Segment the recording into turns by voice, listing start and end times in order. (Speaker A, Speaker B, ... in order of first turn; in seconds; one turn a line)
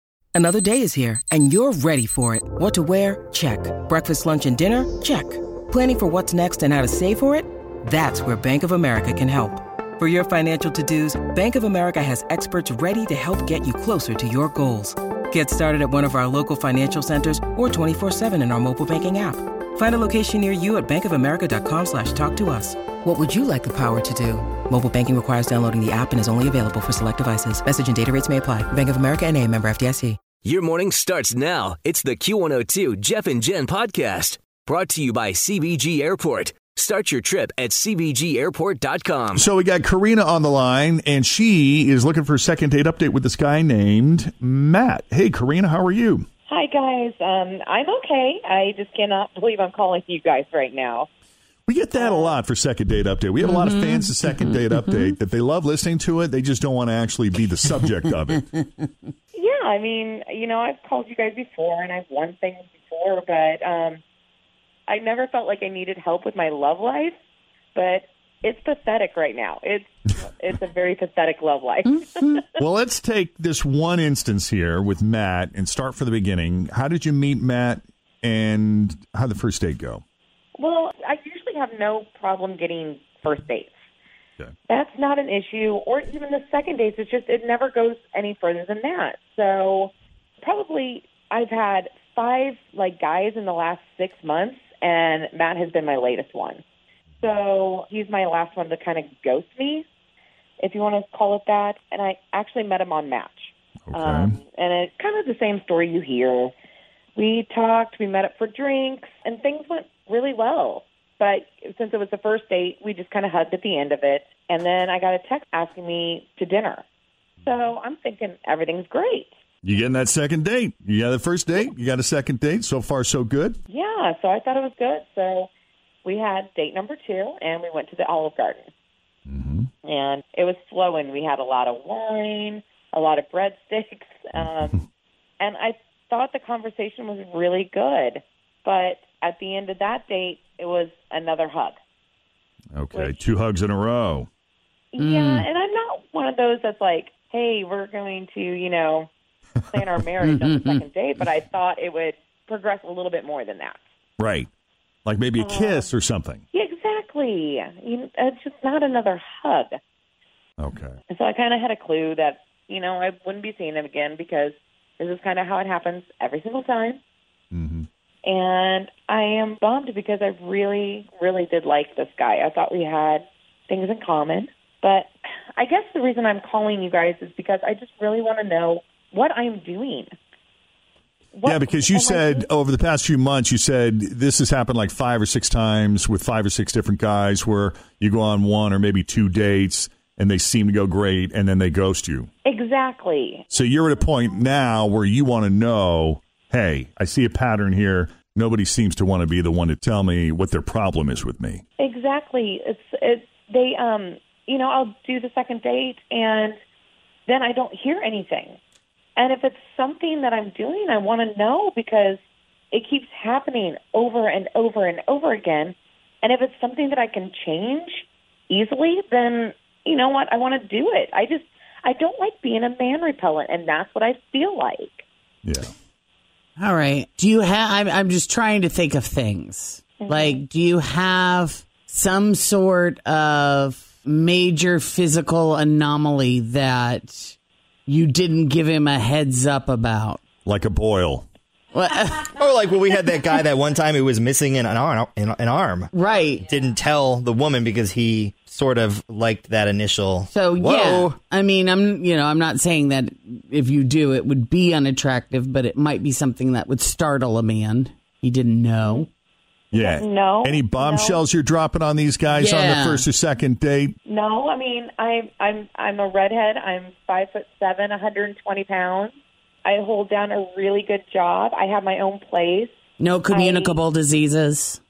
Speaker A: 0.3-30.2
Speaker B: 30.4-39.5
Speaker C: 39.4-46.3
Speaker D: 46.5-51.1
Speaker C: 51.7-58.5
Speaker D: 52.0-52.3
Speaker E: 53.4-55.1
Speaker D: 59.3-64.0
Speaker D: 64.9-67.2
Speaker D: 67.8-72.6
Speaker E: 72.1-72.4
Speaker C: 72.6-80.0
Speaker D: 80.6-83.7
Speaker D: 84.7-96.6
Speaker D: 97.2-99.8
Speaker D: 100.6-106.5
Speaker C: 103.9-104.4
Speaker D: 107.2-116.8
Speaker D: 117.4-119.3
Speaker C: 119.6-123.6
Speaker D: 123.7-125.5
Speaker D: 126.0-128.7
Speaker C: 129.3-129.7
Speaker D: 129.8-134.8
Speaker D: 135.4-141.8
Speaker C: 142.8-144.3
Speaker D: 142.9-143.2
Speaker D: 144.9-149.1
Speaker E: 145.0-145.5
Speaker D: 149.7-153.8
Speaker E: 150.2-150.8
Speaker C: 154.2-154.5
Speaker C: 155.1-156.4
Speaker D: 155.4-155.9
Speaker D: 156.5-159.8
Speaker C: 160.6-161.0
Speaker D: 161.1-167.0
Speaker C: 167.5-167.9
Speaker D: 168.3-180.1
Speaker D: 181.3-182.5
Speaker C: 181.4-192.3
Speaker D: 192.4-193.4
Speaker C: 193.5-201.6
Speaker D: 201.8-206.6
Speaker D: 207.3-208.6
Speaker D: 209.2-212.2
Speaker D: 212.7-225.0
Speaker C: 225.4-225.7
Speaker E: 226.6-237.4
Speaker D: 230.0-230.4
Speaker E: 237.9-240.2
Speaker C: 240.4-241.3
Speaker E: 241.7-242.3
Speaker F: 242.3-245.9
Speaker E: 245.9-246.5
Speaker F: 246.4-251.2
Speaker E: 250.3-259.1
Speaker C: 259.7-263.9
Speaker D: 259.8-261.2
Speaker E: 262.4-263.1
Speaker D: 264.1-269.1
Speaker D: 269.6-272.7
Speaker E: 273.0-274.8
Speaker D: 273.3-273.8